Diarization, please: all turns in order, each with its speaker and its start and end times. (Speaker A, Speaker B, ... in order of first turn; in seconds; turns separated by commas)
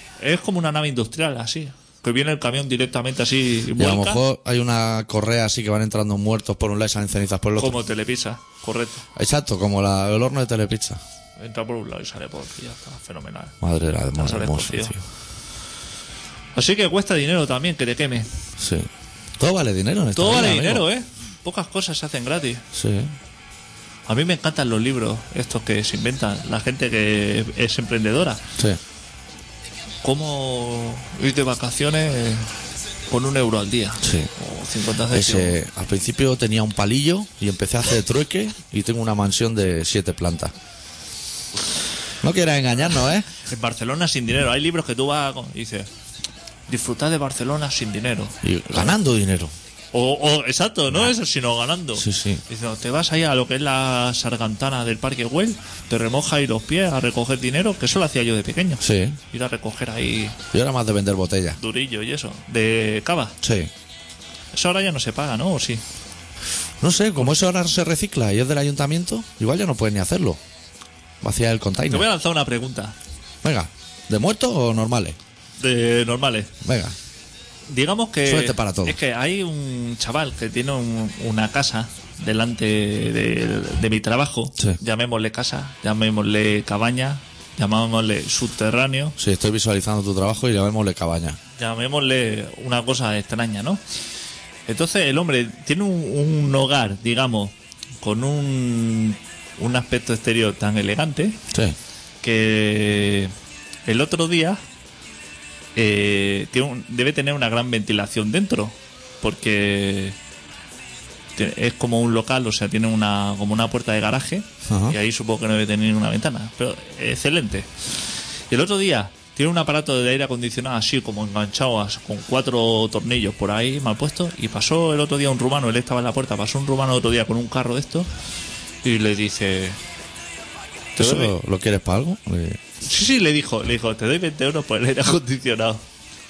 Speaker A: 0.2-4.2, Speaker B: 3.8-7.8, Speaker A: 7.6-9.0, Speaker B: 9.2-11.0, Speaker A: 11.4-13.5, Speaker B: 13.6-15.0, Speaker A: 14.1-14.9, Speaker A: 16.5-18.3, Speaker B: 18.6-20.9, Speaker A: 20.1-22.6, Speaker B: 22.7-23.1, Speaker A: 24.1-28.4, Speaker A: 30.0-32.5, Speaker A: 33.1-35.6, Speaker B: 34.0-34.3, Speaker B: 35.1-40.5, Speaker B: 42.2-43.3, Speaker A: 43.4-45.9, Speaker A: 46.7-48.9, Speaker B: 48.4-49.5, Speaker A: 49.9-60.4, Speaker B: 52.0-52.4, Speaker B: 58.8-59.2, Speaker B: 60.5-61.6, Speaker A: 61.6-63.4, Speaker B: 63.4-63.7, Speaker A: 64.5-65.8, Speaker B: 66.8-70.4, Speaker B: 71.2-72.1, Speaker A: 71.9-73.0, Speaker B: 73.4-75.2, Speaker A: 75.6-76.5, Speaker B: 76.6-76.9, Speaker A: 77.7-89.1, Speaker B: 78.2-79.0, Speaker B: 89.2-91.4, Speaker A: 91.6-93.8, Speaker A: 94.7-101.4, Speaker B: 101.5-101.8, Speaker A: 102.2-103.3, Speaker A: 103.8-104.6, Speaker A: 105.8-110.2, Speaker A: 111.4-117.7, Speaker B: 114.7-115.0, Speaker A: 118.5-128.1, Speaker A: 128.8-129.8, Speaker B: 130.9-132.6, Speaker A: 131.0-131.3, Speaker A: 132.8-135.8